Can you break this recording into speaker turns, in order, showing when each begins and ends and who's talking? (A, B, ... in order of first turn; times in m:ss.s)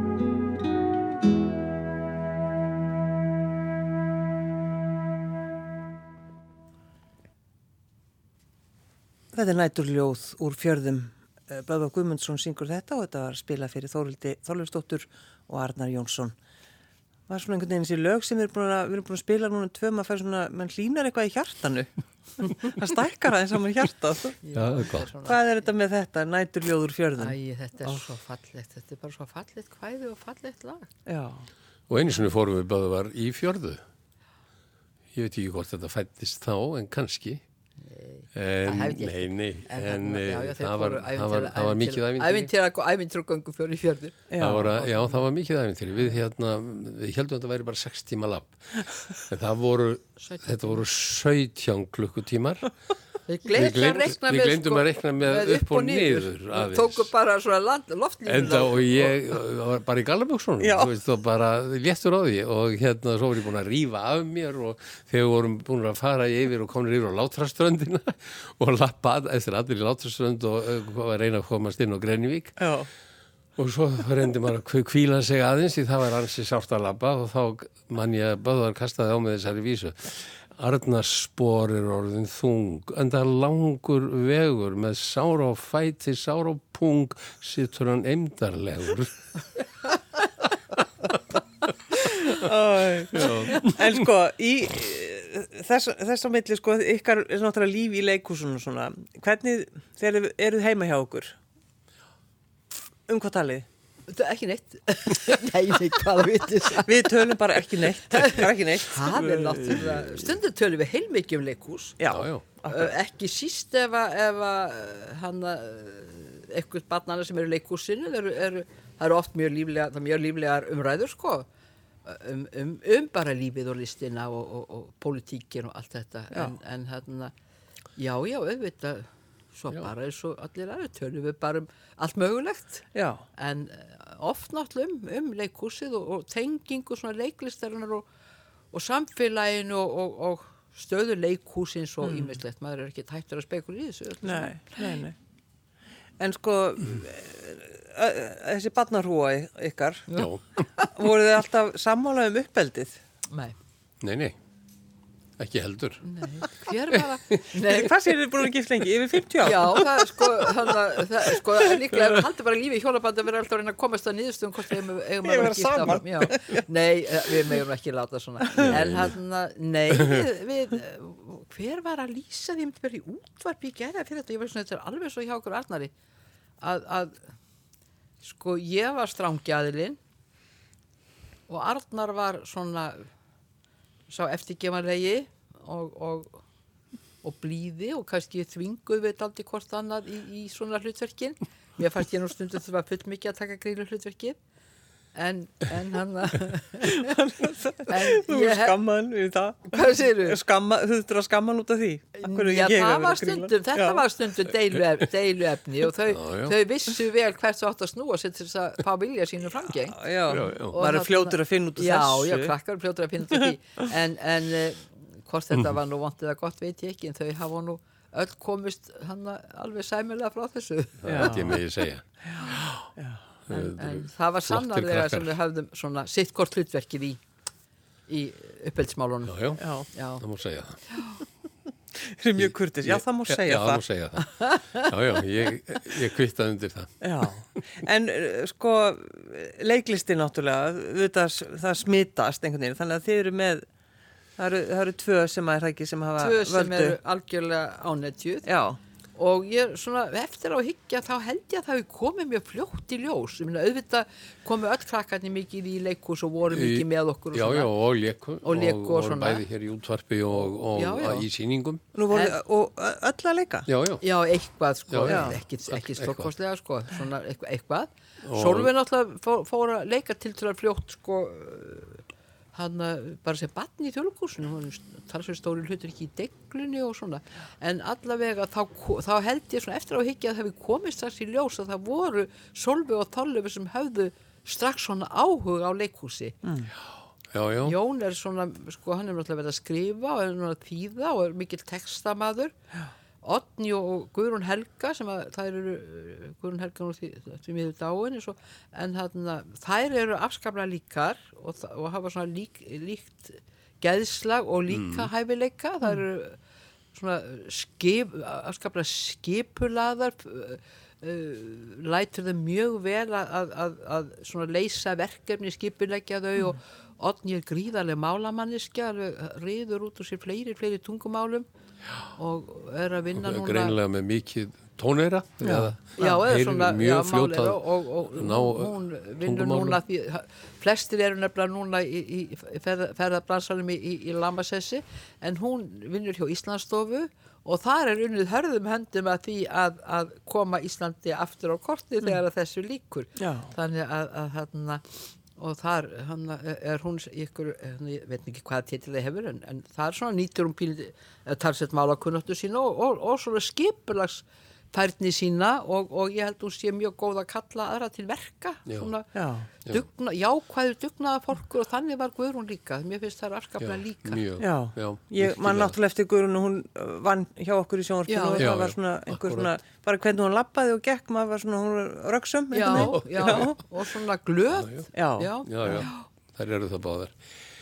0:09.3-0:16.3 A
0:17.3-0:24.4 A
0:24.4-0:25.6 B
0:24.5-0:25.1 C
0:25.2-0:28.0 A
0:27.2-0:30.9 B
0:31.1-0:31.5 A
0:31.9-0:33.8 C
0:35.1-0:37.4 C
0:37.9-0:45.3 B
0:38.3-0:42.5 C
0:44.3-0:44.7 A
0:44.4-0:52.7 C
0:50.2-0:50.8 B
0:53.3-0:59.2 B
0:53.5-0:57.1 C
0:58.2-1:12.6 C
1:00.6-1:00.9 A
1:12.6-1:12.9 A
1:13.6-1:29.2 C
1:31.9-1:41.4 A
1:33.1-1:34.0 C
1:43.1-1:43.6 A
1:44.1-1:47.6 B
1:46.8-1:49.1 A
1:48.1-1:52.0 B
1:49.0-1:50.4 C
1:52.0-1:52.9 A
1:52.1-1:52.4 C
1:52.7-2:01.4 B
2:02.0-2:07.3 B
2:08.0-2:18.0 B
2:12.9-2:13.2 A
2:18.7-2:25.1 B
2:22.0-2:22.4 A
2:24.2-2:25.1 A
2:26.2-2:30.1 A
2:30.2-2:30.4 C
2:30.9-2:33.0 A
2:33.3-2:33.6 B
2:34.0-2:34.4 C
2:35.4-2:36.0 C
2:36.0-2:37.9 B
2:37.6-2:40.8 A
2:39.4-2:55.9 B
2:45.2-2:46.6 A
2:48.6-2:49.1 C
2:56.6-2:57.2 B
2:58.2-3:00.0 B
3:01.5-3:03.1 B
3:04.1-3:06.4 B
3:07.2-3:14.4 B
3:15.1-3:17.2 B
3:16.8-3:24.0 A
3:17.9-3:18.8 B
3:19.7-3:20.4 B
3:22.2-3:30.0 B
3:26.1-3:26.6 C
3:29.9-3:32.5 A
3:30.3-3:30.7 C
3:30.7-3:41.3 B
3:41.0-3:42.9 C
3:41.1-3:41.6 A
3:42.2-3:43.2 A
3:43.5-3:45.4 C
3:43.5-3:47.2 B
3:48.1-3:49.4 B
3:49.2-3:49.6 C
3:49.6-3:49.9 A
3:49.9-3:50.2 B
3:50.2-3:50.8 C
3:50.9-3:51.2 B
3:52.0-3:53.8 A
3:52.4-3:57.0 C
3:54.2-3:54.9 B
3:57.0-4:03.6 A
4:04.4-4:07.0 A
4:06.2-4:08.4 B
4:08.4-4:08.8 A
4:09.2-4:17.7 B
4:16.5-4:21.8 C
4:18.4-4:19.4 B
4:20.3-4:21.3 B
4:21.9-4:23.7 A
4:22.1-4:22.4 B
4:23.7-4:24.0 C
4:24.0-4:46.4 B
4:24.9-4:26.3 C
4:25.1-4:25.4 A
4:28.2-4:28.7 C
4:46.4-4:46.7 A
4:47.3-4:47.8 C
4:47.6-4:52.5 B
4:53.2-5:06.4 B
5:04.7-5:05.1 C
5:06.9-5:21.4 B
5:22.1-5:23.8 B
5:23.1-5:29.8 C
5:25.4-5:26.2 A
5:26.0-5:59.1 B
5:43.2-5:43.5 A
5:58.6-5:58.9 C
5:59.1-5:59.5 A
5:59.7-6:04.2 B
6:03.6-6:05.8 C
6:04.4-6:13.6 A
6:08.1-6:08.5 B
6:08.4-6:09.5 C
6:12.5-6:16.0 B
6:12.7-6:13.5 C
6:14.6-6:14.9 C
6:14.9-6:15.8 A
6:15.4-6:17.2 C